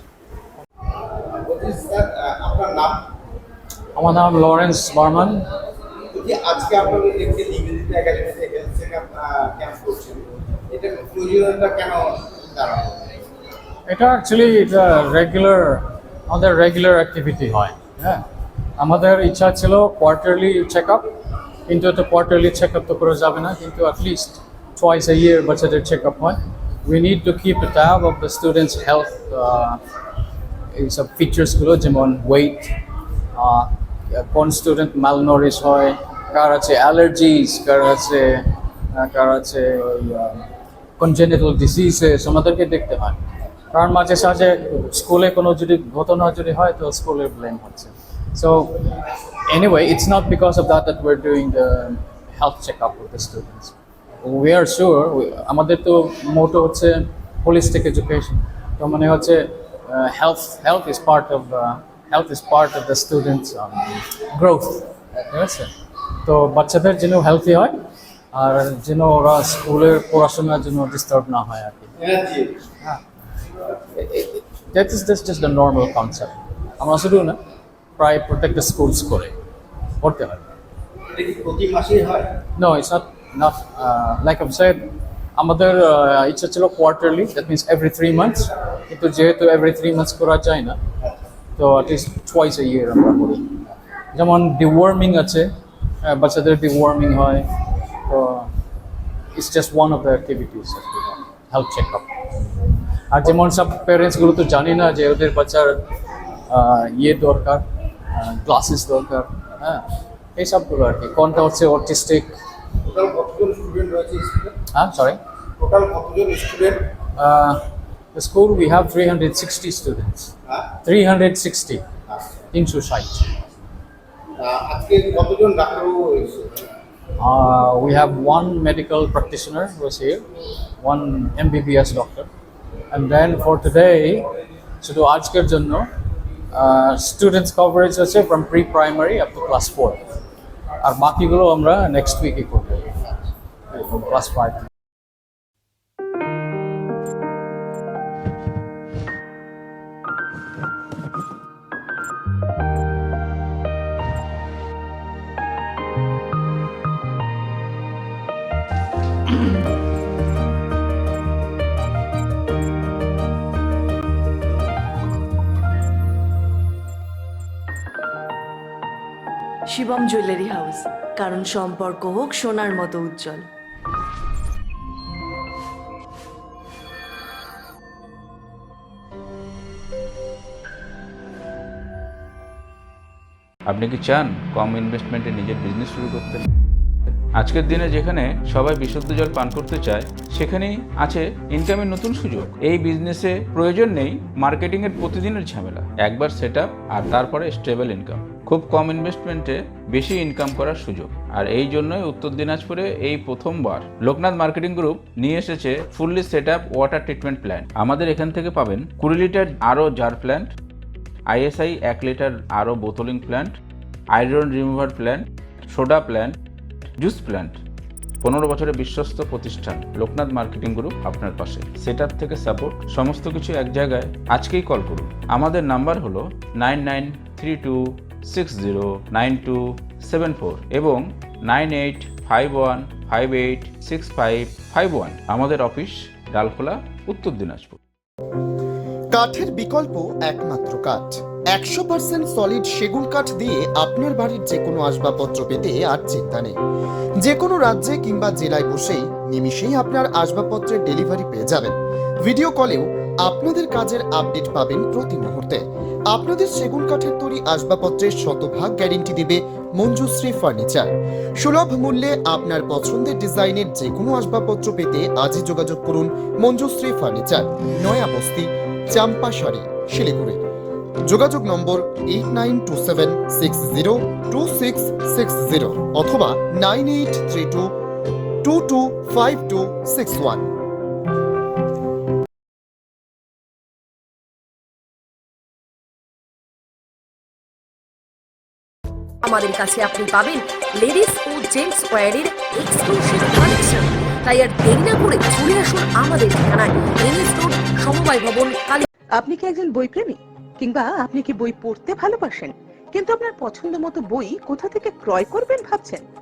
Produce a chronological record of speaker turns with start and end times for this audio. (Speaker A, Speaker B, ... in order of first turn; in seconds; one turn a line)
Speaker A: 1.4-3.0
Speaker B: 3.9-5.5
Speaker A: 6.1-13.2
Speaker B: 13.9-18.2
Speaker B: 18.8-21.1
Speaker B: 21.7-29.8
Speaker B: 30.7-32.7
Speaker B: 33.4-40.5
Speaker B: 41.0-43.2
Speaker B: 43.7-48.8
Speaker B: 49.5-65.7
Speaker B: 66.2-67.7
Speaker B: 68.3-71.9
Speaker A: 72.0-72.6
Speaker B: 74.7-77.4
Speaker B: 78.0-79.3
Speaker B: 80.0-80.4
Speaker A: 81.1-82.3
Speaker B: 82.6-90.8
Speaker B: 91.5-93.5
Speaker B: 94.1-95.5
Speaker B: 96.0-97.5
Speaker B: 98.0-98.5
Speaker B: 99.3-102.1
Speaker B: 103.1-105.8
Speaker B: 106.5-109.8
Speaker B: 110.3-112.3
Speaker A: 112.8-114.5
Speaker B: 114.7-115.2
Speaker A: 115.6-116.9
Speaker B: 117.2-117.6
Speaker B: 118.1-120.3
Speaker B: 120.8-121.8
Speaker B: 122.5-123.2
Speaker A: 124.4-126.7
Speaker B: 127.2-130.2
Speaker B: 130.8-132.3
Speaker B: 132.9-134.2
Speaker B: 134.8-135.9
Speaker B: 136.5-140.0
Speaker B: 140.8-142.8
Speaker B: 143.7-144.6
Speaker C: 169.7-173.4
Speaker D: 183.7-186.4
Speaker D: 187.3-210.5
Speaker D: 211.3-213.5
Speaker D: 214.1-216.3
Speaker D: 217.0-217.6
Speaker D: 218.2-237.8
Speaker E: 239.1-246.6
Speaker E: 247.2-251.7
Speaker E: 252.2-270.4
Speaker E: 271.1-277.7
Speaker E: 278.4-280.5
Speaker F: 289.2-298.8
Speaker G: 299.2-306.0